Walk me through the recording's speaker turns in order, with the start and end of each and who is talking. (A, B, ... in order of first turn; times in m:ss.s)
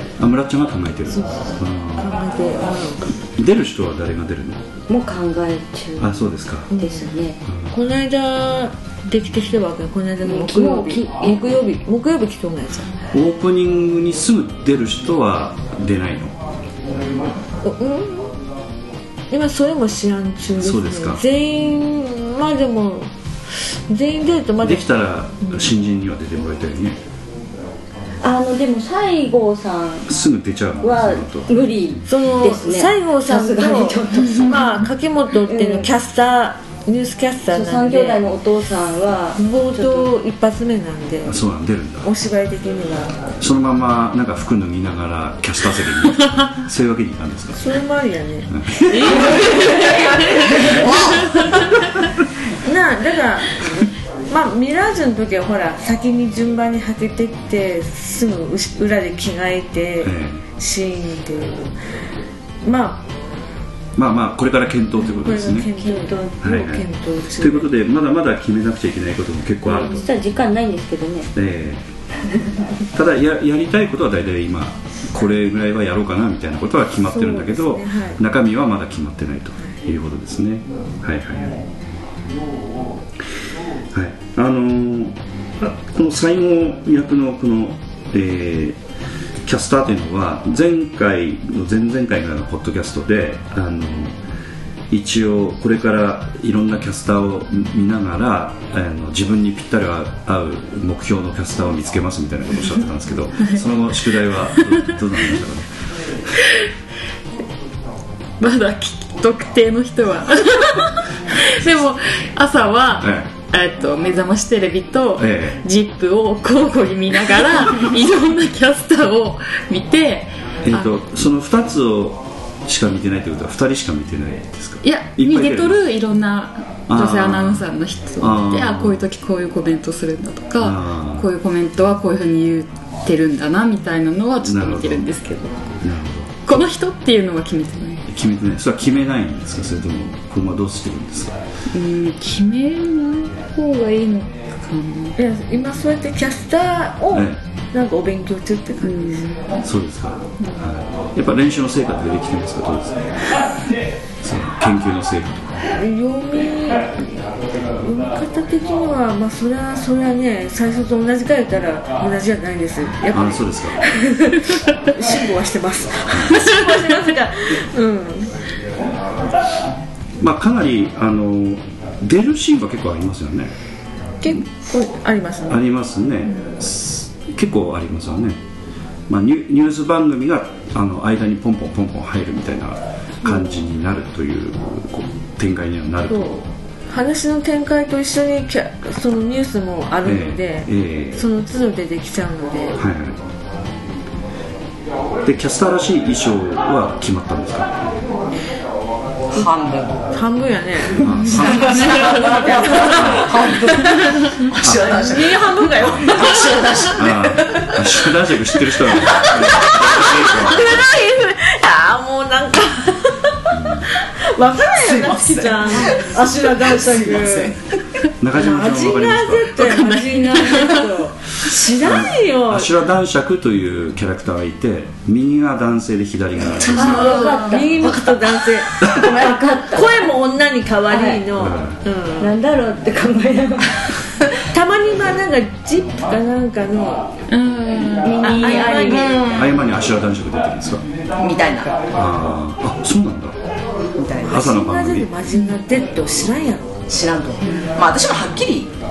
0:00.2-0:02.1 A
0:02.0-0:03.1 B
0:03.4-0:04.6 A
0:04.9-0:06.1 C
0:06.0-0:06.7 A
0:06.7-0:07.1 B
0:06.7-0:07.4 C
0:07.5-0:07.7 A
0:07.7-0:12.9 B
0:10.2-0:11.6 C
0:13.1-0:16.4 A
0:17.6-0:18.3 B
0:19.3-0:23.1 B
0:20.6-0:21.2 A
0:23.6-0:24.9 B
0:24.6-0:27.0 A
0:28.2-0:30.1 C
0:30.1-0:31.5 A
0:30.8-0:34.8 C
0:32.1-0:38.2 B
0:35.5-0:35.9 C
0:37.5-0:40.1 C
0:39.4-0:41.4 B
0:41.2-0:42.1 A
0:42.0-0:43.2 B
0:43.4-0:47.6 A
0:47.5-0:50.3 B
0:48.5-0:49.3 A
0:49.4-0:49.9 C
0:50.6-0:51.3 D
0:52.6-0:53.6 B
0:54.3-1:01.7 B
1:00.0-1:00.4 A
1:02.6-1:03.0 B
1:04.0-1:05.7 A
1:05.0-1:07.7 B
1:05.8-1:06.3 C
1:06.4-1:10.1 A
1:09.6-1:11.3 C
1:11.3-1:11.8 A
1:12.9-1:21.6 A
1:17.0-1:18.2 B
1:23.9-1:28.8 A
1:29.4-1:34.2 A
1:34.9-1:45.7 A
1:48.4-2:00.9 E
1:53.0-1:53.3 A
1:55.2-1:55.6 A
2:00.6-2:05.8 A
2:04.8-2:15.6 E
2:06.9-2:09.0 A
2:10.6-2:11.3 A
2:14.4-2:15.1 A
2:15.8-2:16.3 A
2:16.4-2:18.0 E
2:18.1-2:21.4 A
2:21.7-2:25.2 E
2:25.2-2:29.3 B
2:27.1-2:27.4 A
2:28.8-2:29.2 E
2:29.6-2:33.1 A
2:34.2-2:35.6 A
2:35.8-2:37.1 B
2:37.8-2:48.3 B
2:43.1-2:43.8 A
2:46.1-2:46.5 A
2:50.2-2:53.5 A
2:54.2-2:55.6 B
2:55.5-2:58.4 A
2:59.1-3:06.5 A
3:03.2-3:03.5 B
3:06.1-3:12.8 B
3:10.0-3:11.2 A
3:12.8-3:13.2 A
3:15.2-3:17.9 A
3:19.3-3:20.0 D
3:20.1-3:23.2 B
3:21.0-3:22.1 A
3:21.3-3:27.8 D
3:22.9-3:23.3 A
3:24.6-3:25.0 A
3:24.9-3:26.7 B
3:25.8-3:26.1 A
3:26.9-3:30.9 A
3:30.2-3:37.5 B
3:33.5-3:33.9 A
3:34.6-3:37.6 D
3:38.2-3:39.8 A
3:38.3-3:42.7 B
3:39.8-3:40.8 E
3:41.8-3:47.3 A
3:46.7-3:50.2 C
3:46.7-3:49.1 B
3:49.7-3:52.3 B
3:50.9-3:51.3 C
3:51.4-3:51.8 A
3:52.2-3:54.0 C
3:54.4-3:57.1 B
3:57.3-3:58.2 E
3:58.0-3:59.3 C
3:58.2-3:59.2 B
3:58.8-3:59.6 D
3:59.3-4:00.8 A
4:01.2-4:01.9 D
4:01.9-4:03.4 A
4:03.9-4:04.4 D
4:04.2-4:05.1 A
4:04.2-4:06.7 B
4:06.9-4:08.7 D